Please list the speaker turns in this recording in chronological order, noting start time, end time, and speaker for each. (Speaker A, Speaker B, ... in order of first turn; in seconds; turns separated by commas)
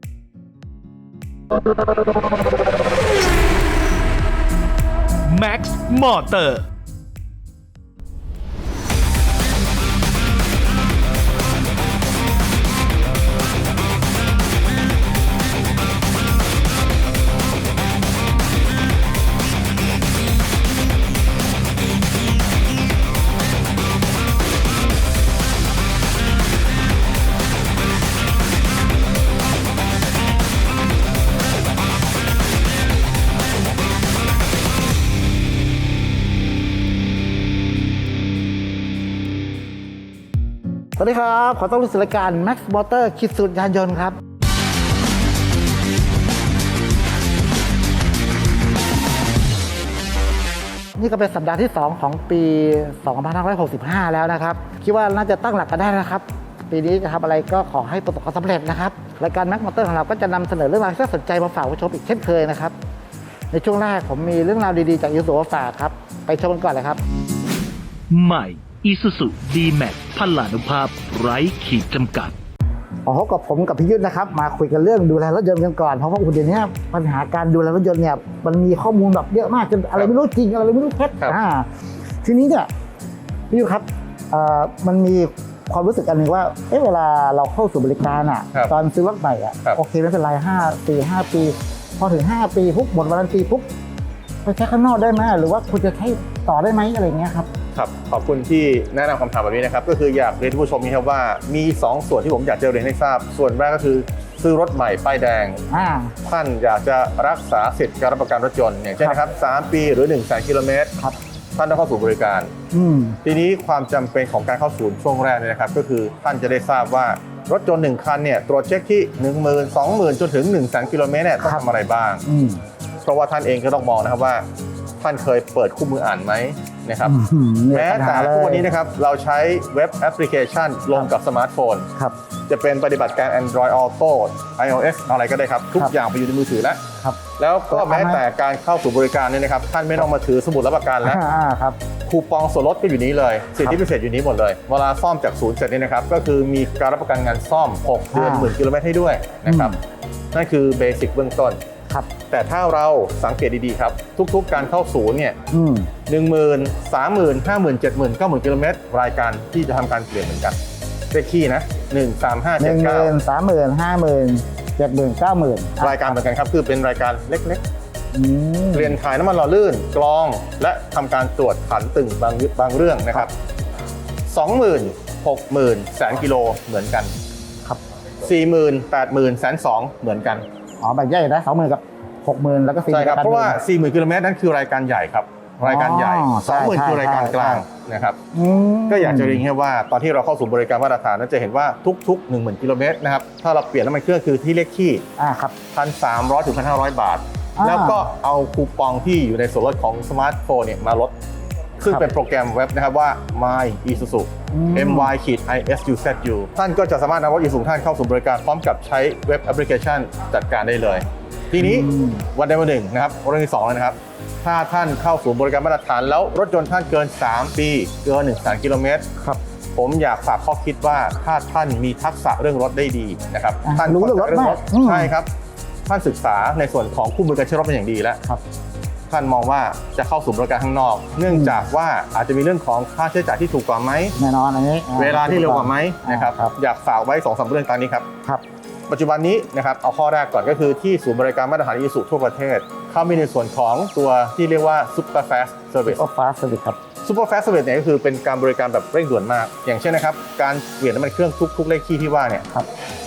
Speaker A: 5.3-6.6, Speaker B: 41.0-44.2, Speaker B: 51.0-62.8, Speaker B: 63.5-67.0, Speaker A: 68.1-72.3, Speaker B: 73.0-81.7, Speaker B: 82.2-82.7, Speaker B: 83.5-93.7, Speaker B: 94.5-97.5, Speaker C: 97.7-105.6, Speaker B: 105.7-106.2, Speaker C: 106.2-111.0, Speaker C: 111.6-112.5, Speaker B: 112.7-113.2, Speaker C: 113.2-122.2, Speaker B: 122.3-122.6, Speaker C: 123.0-124.5, Speaker C: 125.0-127.2, Speaker B: 127.0-128.7, Speaker C: 127.7-131.9, Speaker C: 132.5-136.8, Speaker C: 137.4-141.2, Speaker B: 137.7-138.2, Speaker B: 141.0-141.8, Speaker C: 142.1-149.8, Speaker B: 148.1-148.5, Speaker B: 149.5-149.8, Speaker C: 150.3-151.6, Speaker C: 152.3-155.4, Speaker B: 155.5-155.9, Speaker C: 156.1-160.6, Speaker C: 161.1-163.2, Speaker B: 162.6-166.2, Speaker C: 165.8-167.6, Speaker B: 168.1-169.0, Speaker C: 168.7-173.3, Speaker C: 174.3-177.1, Speaker C: 178.2-180.5, Speaker B: 180.8-183.6, Speaker C: 182.9-188.2, Speaker B: 185.7-187.6, Speaker B: 188.3-189.4, Speaker C: 188.9-195.0, Speaker B: 195.2-195.6, Speaker C: 195.7-201.2, Speaker B: 197.6-198.0, Speaker C: 201.8-219.1, Speaker B: 204.5-205.1, Speaker B: 211.6-212.2, Speaker C: 219.8-225.3, Speaker B: 223.7-225.1, Speaker C: 225.9-228.2, Speaker C: 229.1-234.2, Speaker B: 231.3-231.6, Speaker B: 234.2-236.5, Speaker C: 235.0-238.1, Speaker C: 238.9-246.0, Speaker B: 245.9-246.8, Speaker C: 247.0-252.5